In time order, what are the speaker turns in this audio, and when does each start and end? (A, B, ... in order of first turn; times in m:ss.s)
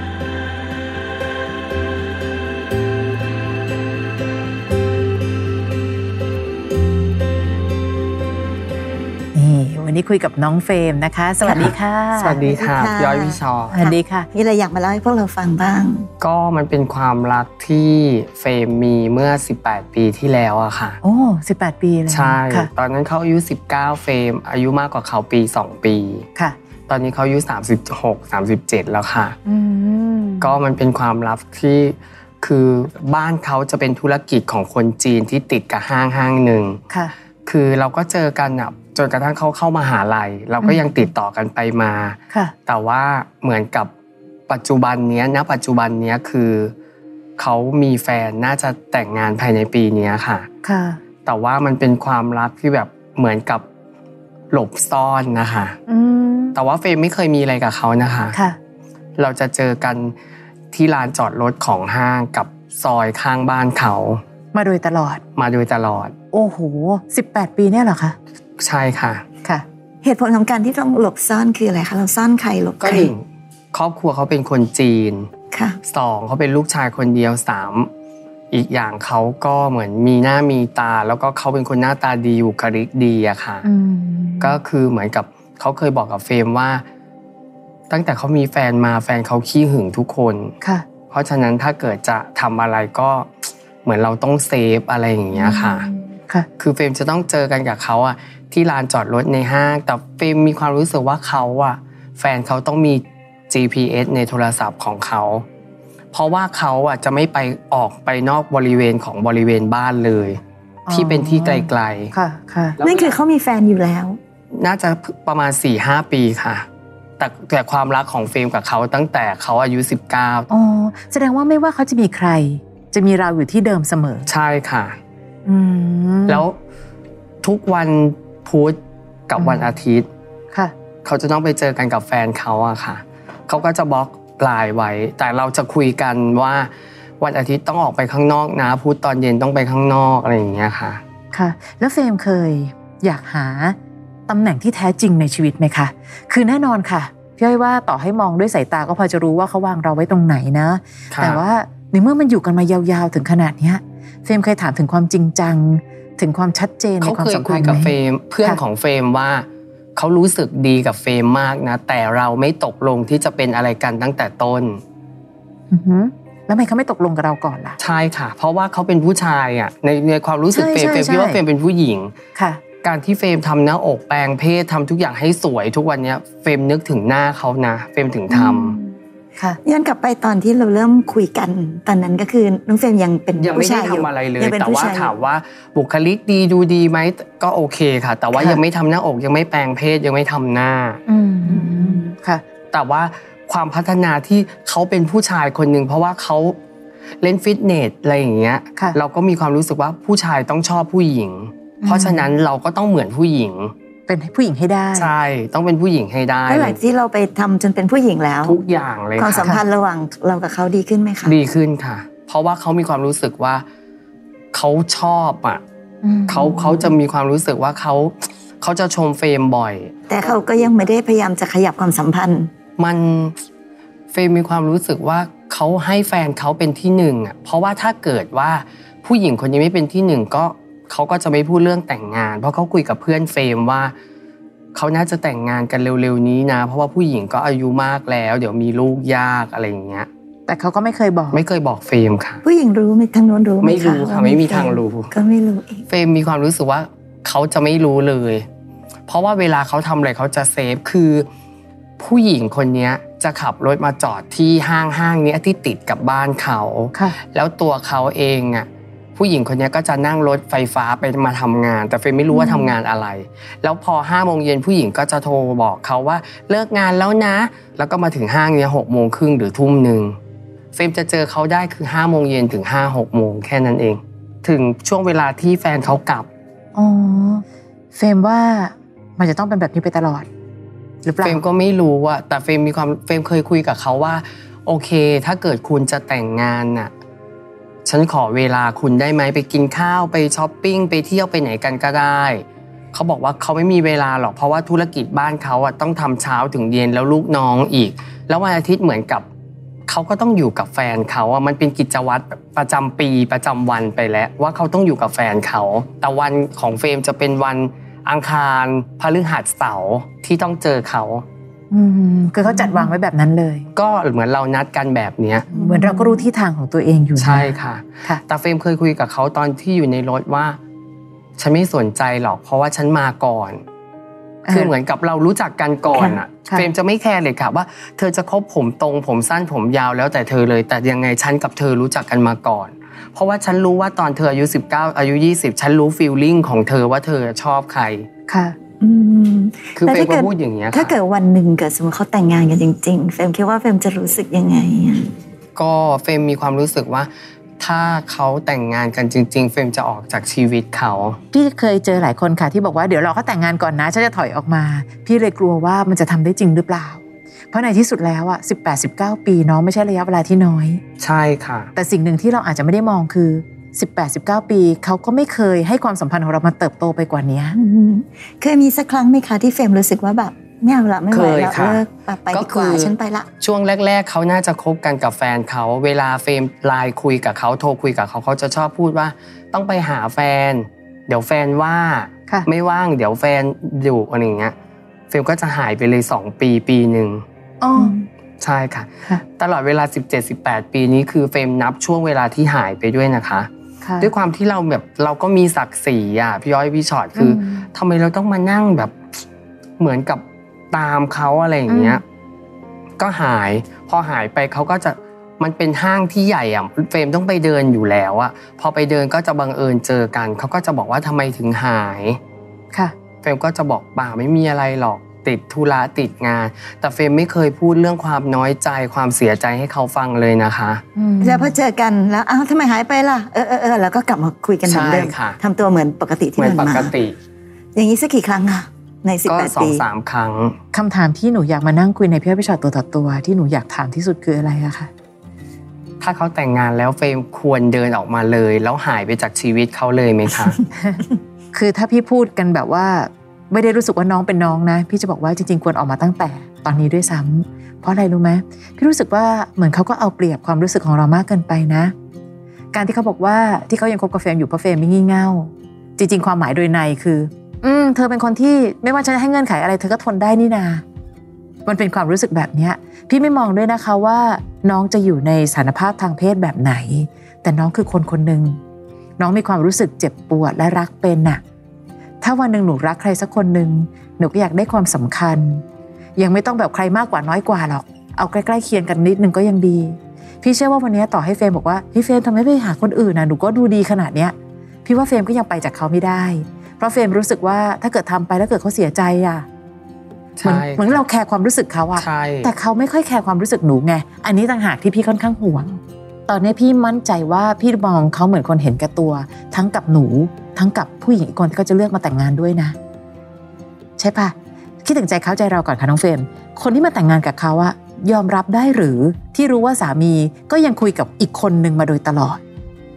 0:09.3-0:12.4 A
0:11.4-0:11.7 B
0:12.1-0:13.7 C
0:12.4-0:16.1 B
0:13.7-0:14.3 A
0:16.2-0:21.0 C
0:21.0-0:22.7 A
0:22.1-0:26.2 C
0:26.9-0:29.4 C
0:29.4-0:30.6 A
0:30.4-0:36.8 C
0:37.4-0:43.9 C
0:40.6-0:40.9 A
0:44.5-0:46.7 C
0:47.4-0:50.5 C
0:50.6-0:51.0 A
0:51.2-0:53.6 C
0:54.5-0:55.8 C
0:55.9-0:56.6 A
0:56.5-0:58.4 C
0:59.2-1:00.1 C
1:00.7-1:04.2 C
1:04.5-1:05.2 A
1:05.4-1:06.1 C
1:06.3-1:08.2 A
1:08.6-1:09.2 C
1:10.0-1:13.1 B
1:12.8-1:15.3 C
1:15.5-1:15.8 B
1:15.8-1:17.9 C
1:18.5-1:23.6 C
1:23.6-1:24.6 A
1:24.4-1:26.8 C
1:27.9-1:30.5 C
1:31.1-1:33.3 C
1:33.8-1:35.9 C
1:35.3-1:36.5 A
1:36.6-1:45.4 C
1:46.1-1:52.1 C
1:50.9-1:52.8 A
1:52.8-1:53.1 C
1:52.8-1:54.2 B
1:54.5-1:56.6 C
1:57.2-2:00.5 C
2:00.5-2:04.3 A
2:04.3-2:05.0 C
2:05.4-2:06.4 A
2:06.3-2:06.6 C
2:07.4-2:10.1 C
2:11.0-2:21.0 C
2:21.3-2:23.8 A
2:24.3-2:38.6 A
2:31.1-2:31.4 C
2:37.0-2:44.8 C
2:45.7-2:47.8 A
2:47.8-2:52.1 C
2:50.5-2:51.4 A
2:52.4-2:52.6 A
2:52.8-2:58.8 C
2:58.3-2:59.6 A
2:59.6-3:05.1 B
3:03.4-3:11.0 C
3:08.3-3:08.6 A
3:11.1-3:12.4 A
3:12.7-3:16.6 C
3:17.2-3:23.7 C
3:21.8-3:22.3 A
3:24.1-3:25.1 A
3:24.9-3:26.8 C
3:26.5-3:28.6 B
3:28.4-3:29.6 C
3:29.2-3:31.4 B
3:31.2-3:33.6 C
3:34.5-3:35.6 C
3:36.0-3:36.9 A
3:36.3-3:40.3 C
3:40.1-3:42.5 B
3:42.8-3:43.3 C
3:44.1-3:53.9 C
3:54.7-4:00.1 C
4:00.5-4:01.4 A
4:01.3-4:02.4 C
4:02.4-4:05.8 B
4:03.6-4:05.1 C
4:05.9-4:08.4 C
4:09.1-4:11.2 C
4:12.0-4:30.2 C
4:22.4-4:22.7 A
4:30.7-4:36.3 C
4:36.8-4:40.3 A
4:41.0-4:41.4 A
4:41.2-4:46.9 C
4:47.8-4:59.2 C
4:59.9-5:11.2 C
5:11.7-5:13.7 A
5:13.8-5:15.5 C
5:15.5-5:18.2 A
5:15.5-5:16.2 B
5:17.2-5:20.6 C
5:21.4-5:23.6 C
5:24.4-5:24.7 A
5:24.5-5:38.1 C
5:26.0-5:26.7 A
5:38.3-5:38.6 A
5:38.8-5:45.2 B
5:39.8-5:40.9 C
5:45.6-5:51.2 C
5:51.3-6:00.8 A
6:01.0-6:01.7 C
6:01.7-6:07.6 A
6:07.5-6:13.3 B
6:11.1-6:24.5 C
6:25.1-6:27.2 C
6:27.6-6:28.0 A
6:27.8-6:28.0 B
6:28.4-6:39.0 C
6:33.8-6:34.1 A
6:37.2-6:37.7 A
6:39.8-6:42.0 C
6:41.7-6:42.0 A
6:43.0-6:52.2 C
6:53.2-7:00.8 C
7:01.0-7:01.6 A
7:01.2-7:06.9 B
7:04.6-7:05.4 C
7:06.4-7:07.2 C
7:07.7-7:09.8 B
7:09.2-7:10.6 C
7:10.7-7:14.9 A
7:16.0-7:20.6 C
7:20.7-7:31.9 A
7:32.7-7:40.8 A
7:41.6-7:48.6 A
7:49.2-7:51.4 A
7:52.2-7:55.6 A
7:56.2-8:09.5 A
8:10.4-8:11.0 C
8:10.4-8:22.8 A
8:12.0-8:12.5 C
8:24.0-8:32.4 A